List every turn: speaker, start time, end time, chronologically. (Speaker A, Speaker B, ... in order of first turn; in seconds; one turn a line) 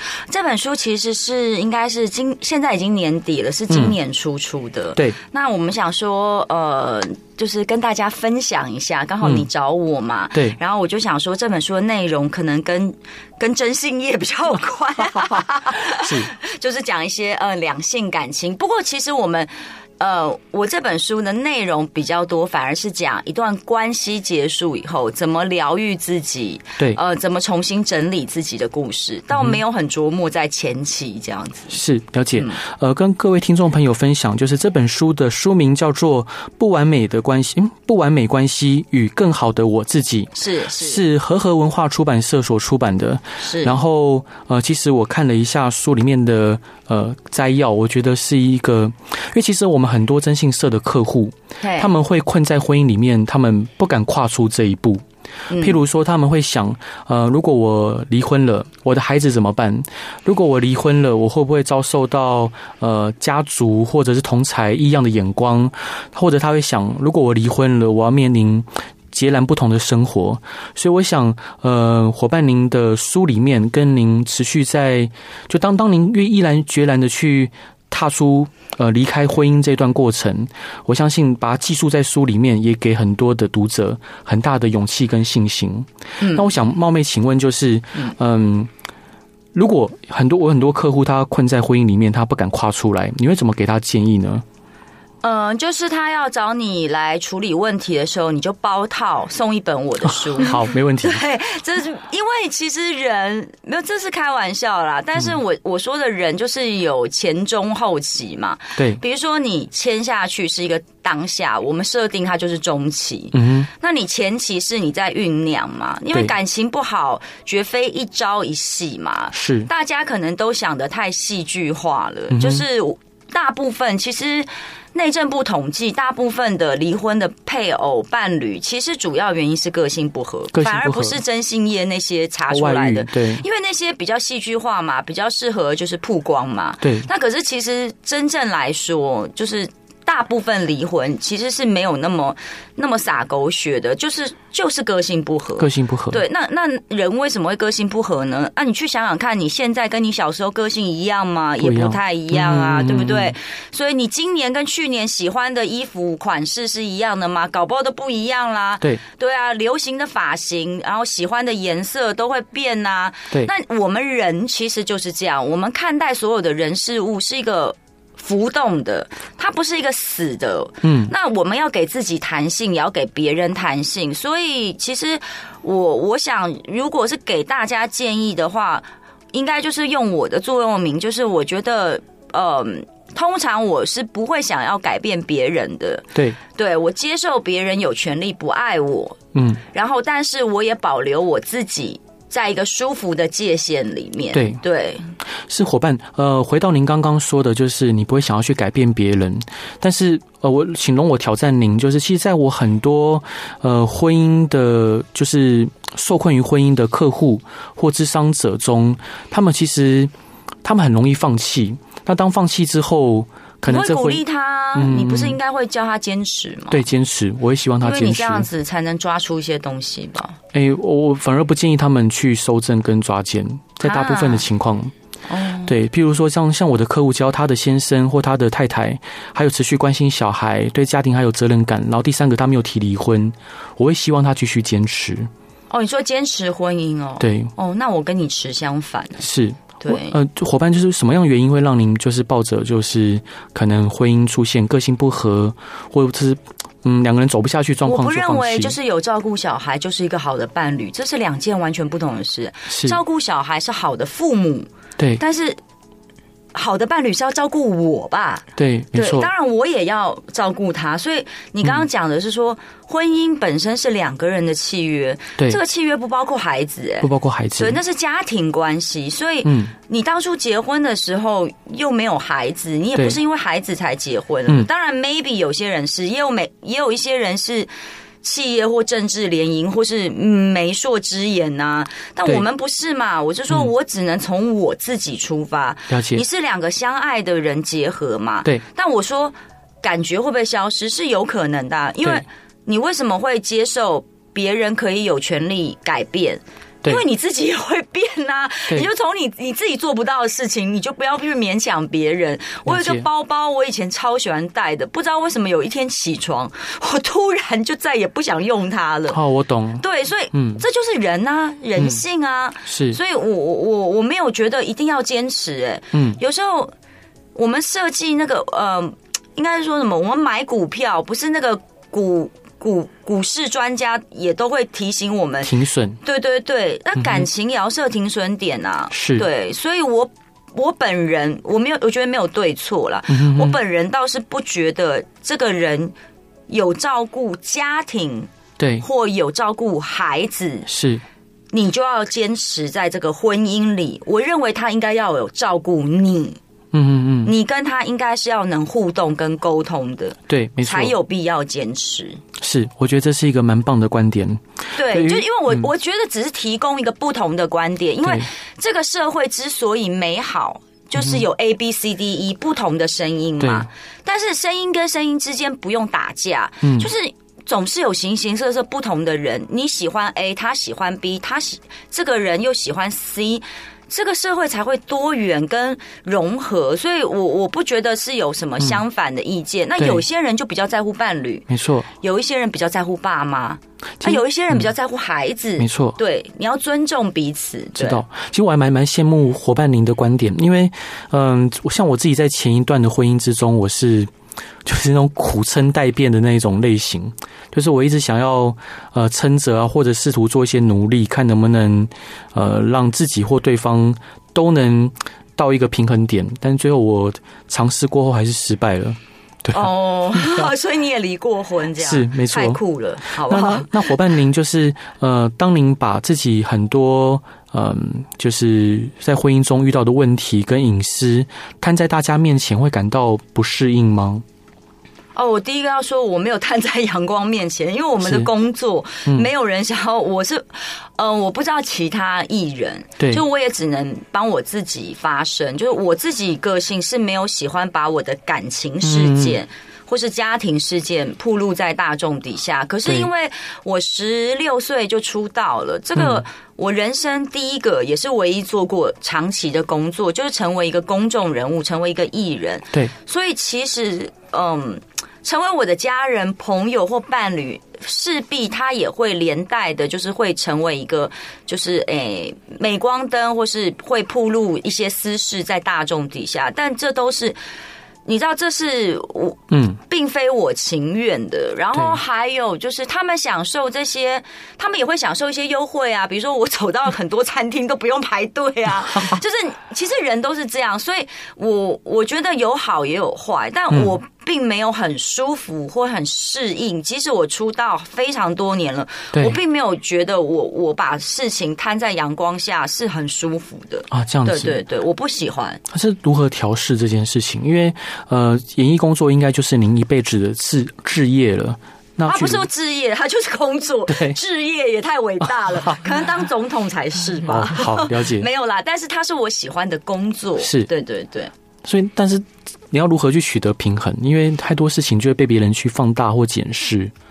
Speaker A: 0.3-31.8
Speaker B: 3.7-4.0
Speaker B: 15.9-16.3
Speaker B: 31.7-55.0
Speaker A: 40.4-41.0
Speaker A: 43.4-43.8
Speaker A: 51.6-51.9
Speaker A: 55.5-55.8
Speaker B: 55.6-88.7
Speaker A: 86.2-86.5
Speaker B: 89.5-94.4
Speaker A: 95.2-195.1
Speaker B: 100.1-101.2
Speaker B: 113.3-113.7
Speaker B: 119.3-119.7
Speaker B: 122.3-122.7
Speaker B: 130.5-131.2
Speaker B: 132.5-133.4
Speaker B: 136.8-137.1
Speaker B: 145.6-146.2
Speaker B: 151.6-153.3
Speaker B: 170.8-171.1
Speaker B: 189.3-189.6
Speaker B: 194.3-194.6
Speaker B: 195.5-210.1
Speaker B: 210.6-214.2
Speaker A: 213.7-216.8
Speaker B: 214.8-215.4
Speaker B: 216.7-218.5
Speaker A: 217.8-220.4
Speaker B: 220.5-224.9
Speaker A: 223.8-224.5
Speaker A: 225.3-225.7
Speaker B: 225.7-235.3
Speaker A: 235.7-239.2
Speaker B: 237.2-237.5
Speaker B: 239.2-248.8
Speaker A: 239.8-240.2
Speaker A: 247.8-255.6
Speaker B: 252.7-253.0
Speaker A: 256.5-277.7
Speaker B: 258.6-259.3
Speaker B: 267.0-267.8
Speaker B: 269.4-269.7
Speaker A: 278.2-309.2
Speaker B: 285.9-286.2
Speaker B: 302.7-303.1
Speaker B: 309.1-310.6
Speaker A: 309.8-316.7
Speaker B: 312.7-313.0
Speaker B: 315.9-316.2
Speaker A: 317.4-325.5
Speaker B: 325.4-326.0
Speaker A: 326.0-335.9
Speaker B: 327.0-327.3
Speaker B: 328.9-329.3
Speaker B: 333.1-333.6
Speaker A: 336.5-338.3
Speaker B: 338.6-338.9
Speaker A: 338.8-340.7
Speaker B: 340.7-341.0
Speaker A: 341.5-346.4
Speaker B: 346.7-347.3
Speaker A: 347.2-352.2
Speaker B: 350.3-350.9
Speaker B: 352.4-355.7
Speaker A: 354.8-388.0
Speaker B: 361.0-361.2
Speaker B: 363.4-363.7
Speaker B: 366.6-366.9
Speaker B: 379.8-380.0
Speaker B: 381.5-381.9
Speaker B: 384.0-384.6
Speaker B: 385.6-386.0
Speaker B: 387.8-394.1
Speaker B: 394.6-410.5
Speaker A: 409.5-413.9
Speaker B: 411.8-412.6
Speaker B: 413.1-424.2
Speaker A: 425.2-467.4
Speaker B: 428.0-428.3
Speaker B: 433.0-433.2
Speaker B: 438.8-439.4
Speaker B: 446.0-446.2
Speaker A: 468.1-495.6
Speaker B: 469.5-469.8
Speaker B: 483.7-484.0
Speaker B: 493.9-494.6
Speaker B: 495.7-502.4
Speaker A: 502.1-511.3
Speaker B: 503.9-504.2
Speaker B: 507.3-508.3
Speaker B: 510.4-510.7
Speaker B: 511.6-516.9